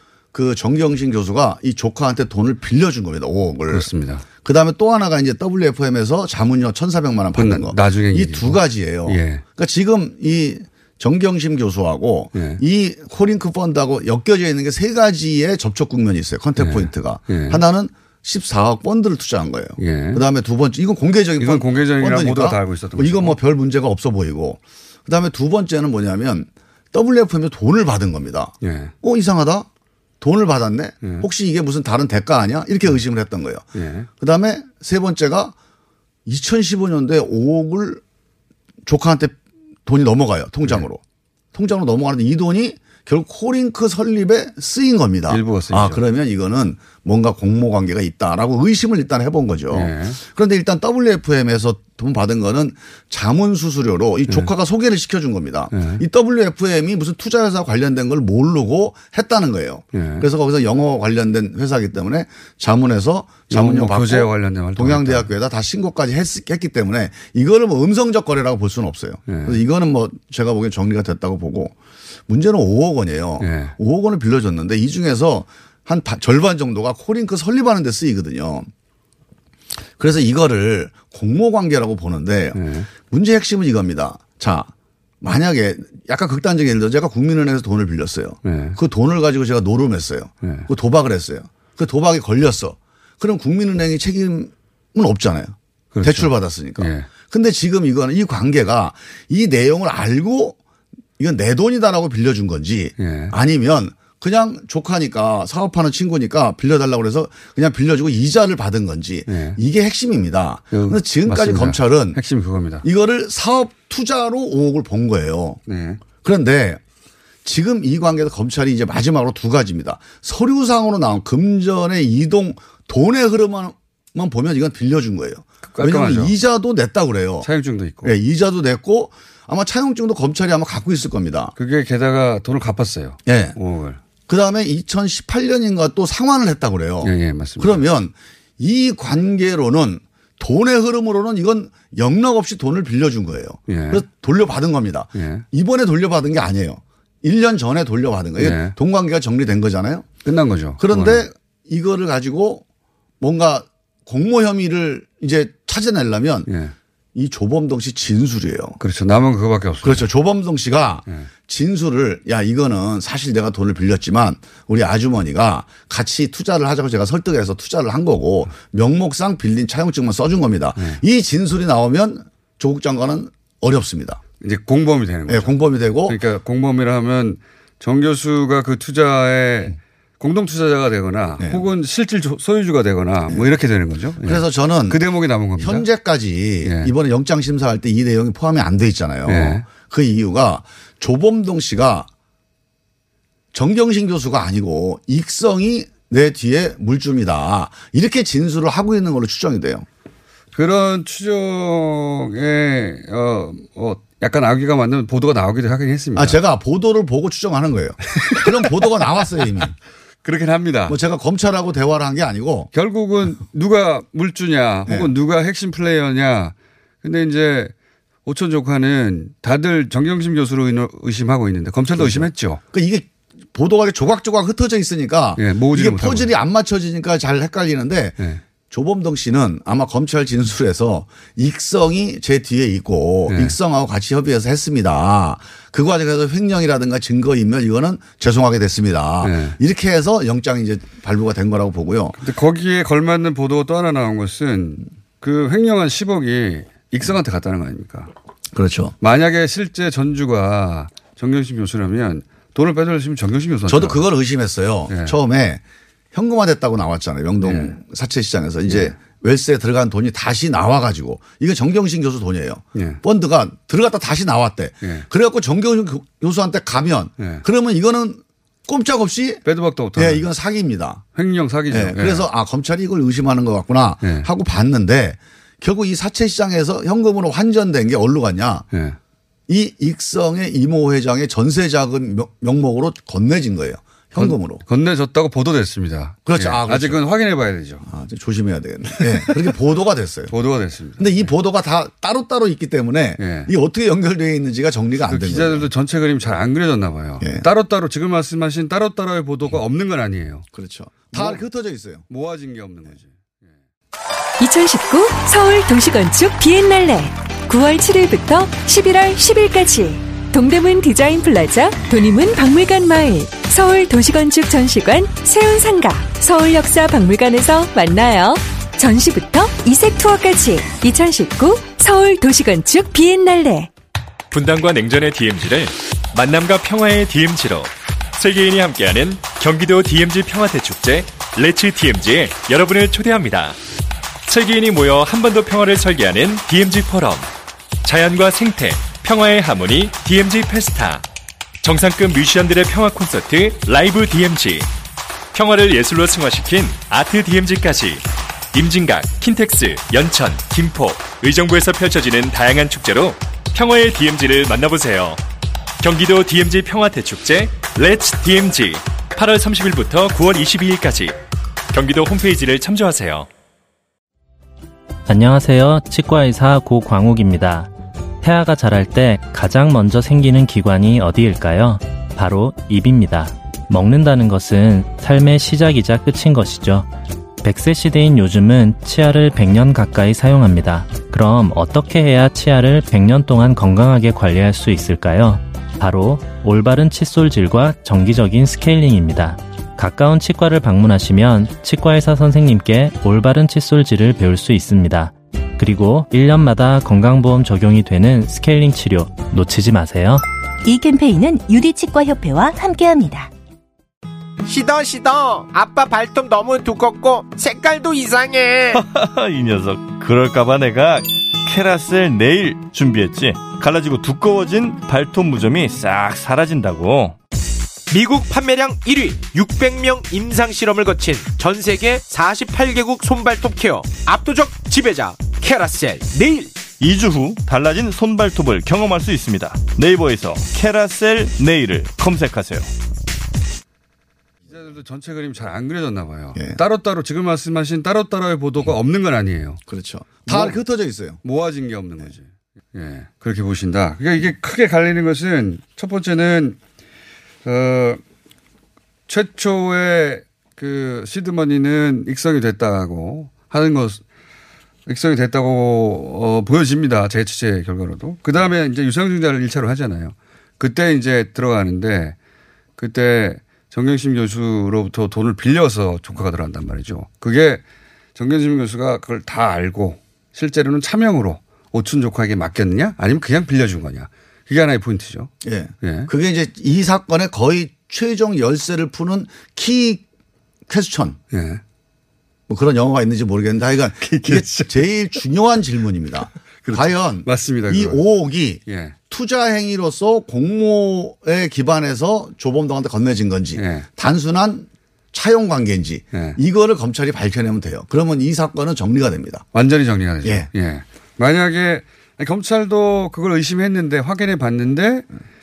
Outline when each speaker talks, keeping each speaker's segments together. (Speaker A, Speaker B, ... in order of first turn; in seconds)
Speaker A: 0.3-3.9, 4.4-29.7, 30.2-33.6, 34.2-35.5, 36.3-38.0, 38.9-41.0, 41.5-71.8, 72.3-78.7, 80.0-100.6, 101.2-112.2, 112.8-115.6, 116.2-116.8, 117.5-127.5, 128.0-131.5, 133.3-133.6, 134.3-150.1, 150.8-152.6, 153.2-156.5, 157.2-158.8, 159.8-174.2, 175.3-176.2, 184.2-185.0, 185.6-192.1, 193.5-199.9, 206.2-209.7, 210.9-212.7, 221.9-242.2, 248.5-248.9, 253.7-255.6, 256.1-269.4, 269.9-271.0, 271.7-278.7, 279.5-284.6, 286.3-287.0, 287.9-290.3, 291.0-295.7, 297.2-297.5, 300.5-302.0, 439.7-441.2, 475.4-480.0, 480.7-481.2, 482.5-499.4, 500.2-500.5
Speaker B: 3.7-4.2, 7.4-9.4, 12.3-12.6, 16.6-17.6, 19.8-20.2, 21.4-23.4, 28.6-28.9, 33.8-34.1, 45.3-46.0, 49.7-50.2, 55.7-56.0, 59.9-60.3, 63.5-65.3, 69.3-69.6, 73.4-73.7, 82.5-82.9, 88.4-88.8, 90.4-90.7, 95.9-97.1, 103.0-103.3, 109.3-109.6, 110.7-112.8, 115.7-116.0, 125.7-126.4, 127.4-128.1, 131.6-134.0, 137.0-137.8, 143.7-144.0, 145.2-145.4, 148.4-148.8, 150.2-151.2, 156.5-156.8, 158.8-160.1, 170.8-171.0, 174.4-175.6, 176.1-185.9, 186.6-186.9, 189.3-189.7, 200.5-206.4, 210.2-211.0, 212.7-217.7, 218.2-222.6, 225.4-226.3, 228.2-228.4, 233.3-233.6, 239.2-239.6, 242.2-248.1, 249.0-254.0, 254.9-255.2, 257.4-257.8, 258.7-258.9, 262.8-263.0, 264.8-265.1, 267.2-267.4, 269.4-270.3, 271.1-272.3, 274.0-274.3, 278.7-279.0, 284.2-287.9, 290.3-291.3, 293.2-293.5, 295.1-300.5, 301.1-301.4, 302.1-303.5, 434.5-439.6, 440.2-440.6, 441.2-446.6, 447.4-448.0, 449.1-454.0, 454.9-462.2, 462.8-467.6, 468.1-475.3, 475.8-476.1, 481.3-481.6, 484.0-484.9, 486.6-488.0, 488.7-489.0, 493.6-493.9, 496.1-496.4, 499.5-505.1
Speaker C: 304.4-323.7
Speaker D: 324.3-333.6, 334.3-337.3, 337.8-341.0, 341.6-344.7, 345.3-355.2, 355.8-361.2, 361.7-363.3
Speaker E: 365.1-367.7, 368.2-376.9, 377.4-400.2
Speaker F: 400.6-403.3
Speaker G: 404.5-408.8, 417.9-426.5
Speaker H: 408.7-417.2, 426.8-432.7